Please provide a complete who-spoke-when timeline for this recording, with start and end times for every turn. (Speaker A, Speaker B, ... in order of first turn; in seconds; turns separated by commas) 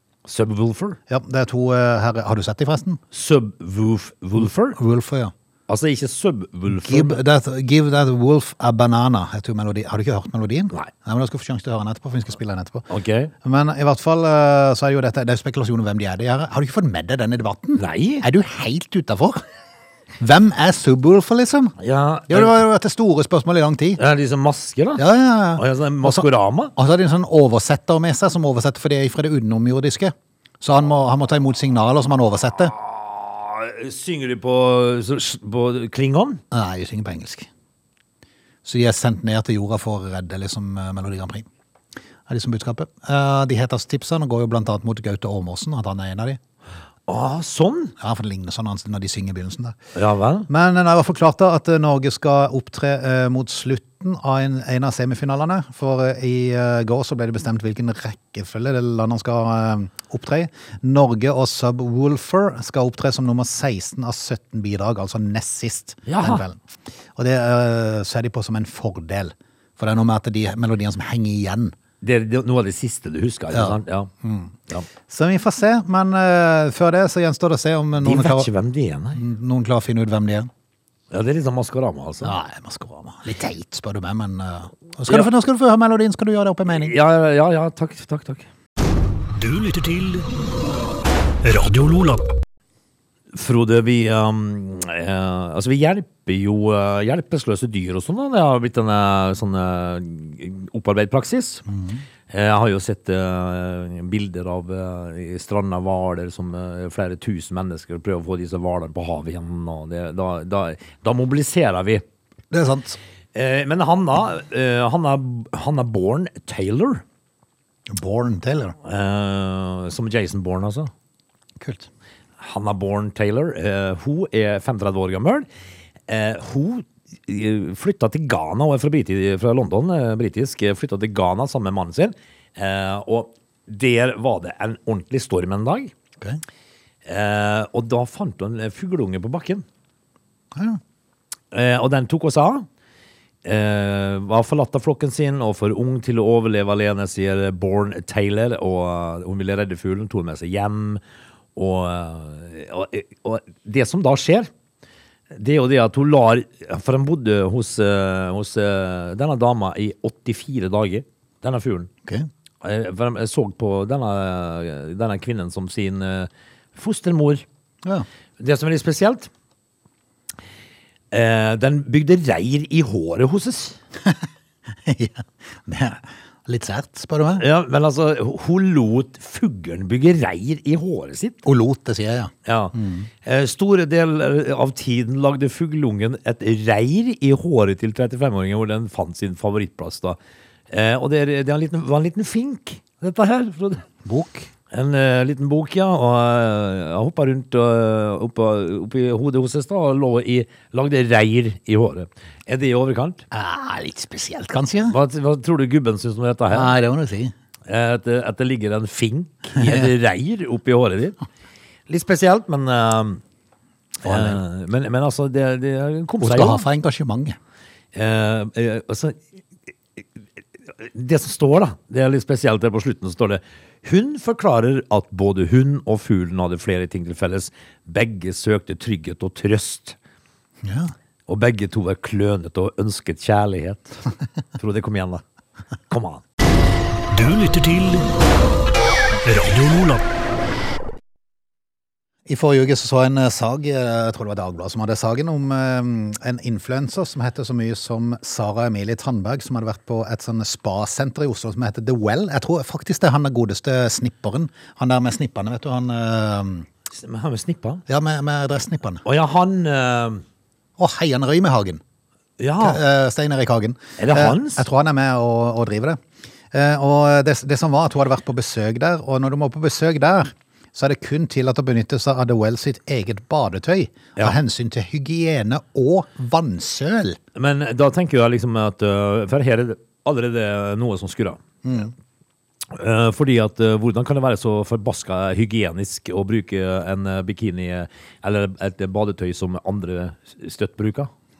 Speaker A: 0.2-1.0, Speaker B: 1.1-3.0, Speaker A: 3.1-4.8, Speaker B: 4.4-5.3, Speaker A: 5.7-7.2, Speaker B: 6.7-12.9, Speaker A: 12.9-13.3, Speaker B: 13.4-19.4, Speaker A: 17.8-18.2, Speaker B: 20.2-21.7, Speaker A: 21.8-22.6, Speaker B: 22.3-24.0, Speaker A: 24.0-25.0, Speaker B: 25.0-32.7, Speaker A: 25.6-26.7, Speaker A: 32.7-36.4, Speaker B: 36.5-37.5, Speaker B: 38.6-41.5, Speaker B: 42.3-46.4, Speaker A: 47.1-47.9, Speaker B: 48.0-49.8, Speaker A: 49.9-50.5, Speaker B: 50.5-66.6, Speaker A: 66.1-66.4, Speaker B: 67.2-71.7, Speaker A: 72.0-74.1, Speaker B: 73.5-74.5, Speaker B: 75.1-78.5, Speaker A: 78.0-79.2, Speaker B: 79.2-80.5, Speaker A: 81.1-82.3, Speaker B: 82.2-86.9, Speaker A: 86.7-88.5, Speaker C: 89.3-90.3, Speaker C: 91.4-92.3, Speaker A: 93.3-101.7, Speaker B: 101.7-102.0, Speaker A: 102.3-112.0, Speaker B: 112.5-113.0, Speaker A: 113.3-117.0, Speaker B: 117.9-118.8, Speaker A: 118.8-120.9, Speaker B: 121.6-121.9, Speaker A: 122.4-125.5, Speaker A: 126.1-135.9, Speaker A: 137.1-139.6, Speaker B: 140.5-140.8, Speaker A: 141.5-142.7, Speaker A: 143.4-151.0, Speaker A: 151.6-154.5, Speaker A: 155.3-161.9, Speaker A: 162.6-167.4, Speaker A: 168.4-169.3, Speaker A: 171.1-173.8, Speaker B: 174.8-177.4, Speaker A: 177.4-181.4, Speaker B: 181.4-183.1, Speaker A: 182.4-190.2, Speaker A: 190.7-193.8, Speaker B: 194.0-194.5, Speaker A: 194.7-203.2, Speaker B: 203.3-204.9, Speaker A: 204.9-206.7, Speaker B: 206.5-207.3, Speaker A: 207.7-211.2, Speaker B: 209.6-209.9, Speaker A: 211.9-213.2, Speaker B: 214.0-214.4, Speaker A: 214.0-216.6, Speaker B: 216.2-217.4, Speaker A: 217.9-219.2, Speaker A: 220.8-229.9, Speaker B: 230.6-230.9, Speaker A: 231.3-234.0, Speaker A: 234.6-235.2, Speaker A: 235.9-236.2, Speaker C: 237.1-238.1, Speaker C: 239.2-240.0, Speaker B: 242.3-256.7, Speaker A: 256.9-257.8, Speaker B: 257.9-259.0, Speaker A: 259.0-260.2, Speaker B: 260.8-261.8, Speaker A: 262.4-262.8, Speaker B: 262.6-266.0, Speaker A: 264.0-264.6, Speaker B: 266.5-277.2, Speaker A: 277.3-281.4, Speaker B: 281.6-281.9, Speaker A: 282.7-291.1